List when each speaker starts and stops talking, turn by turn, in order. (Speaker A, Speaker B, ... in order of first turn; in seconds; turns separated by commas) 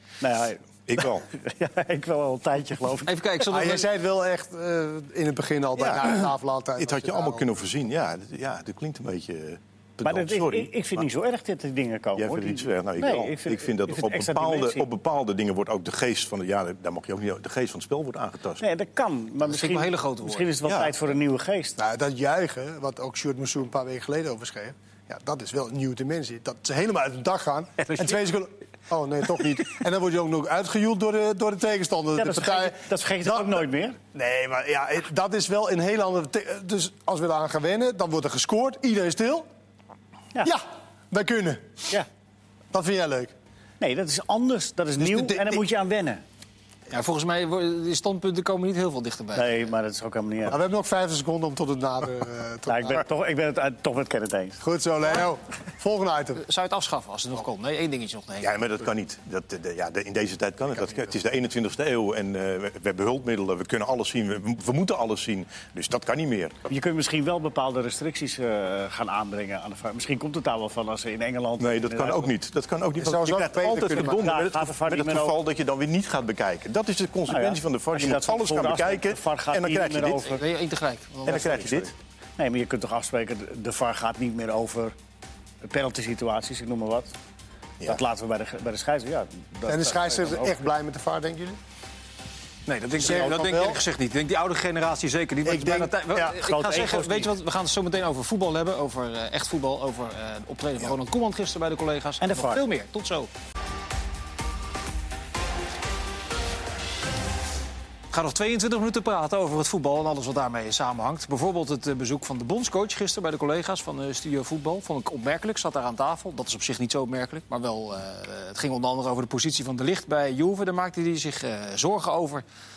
Speaker A: 0.2-3.1, Speaker B: 0.9-1.3, Speaker C: 3.1-3.9, Speaker D: 3.5-7.6, Speaker B: 5.8-6.2, Speaker B: 6.8-11.0, Speaker A: 10.0-14.9, Speaker B: 12.2-18.6, Speaker A: 18.6-21.8, Speaker C: 19.4-20.5, Speaker B: 20.7-20.9, Speaker D: 21.8-39.5, Speaker A: 32.2-34.0, Speaker D: 40.4-41.9, Speaker D: 42.7-43.3, Speaker A: 43.8-46.2, Speaker D: 45.0-45.6, Speaker C: 46.9-49.6, Speaker A: 49.4-50.6, Speaker D: 50.5-53.0, Speaker A: 52.7-54.6, Speaker D: 54.6-56.4, Speaker C: 56.4-58.5, Speaker B: 58.4-66.6, Speaker A: 66.7-72.3, Speaker B: 71.6-80.2, Speaker D: 73.0-74.2, Speaker A: 73.9-75.3, Speaker A: 77.3-80.4, Speaker C: 80.2-81.9, Speaker B: 81.2-81.9, Speaker A: 82.4-84.9, Speaker A: 85.6-87.1, Speaker A: 87.9-90.6, Speaker D: 89.7-91.6, Speaker C: 92.7-103.3, Speaker D: 93.0-93.8, Speaker D: 95.5-96.4, Speaker A: 96.3-97.3, Speaker A: 102.2-102.6, Speaker C: 108.1-122.4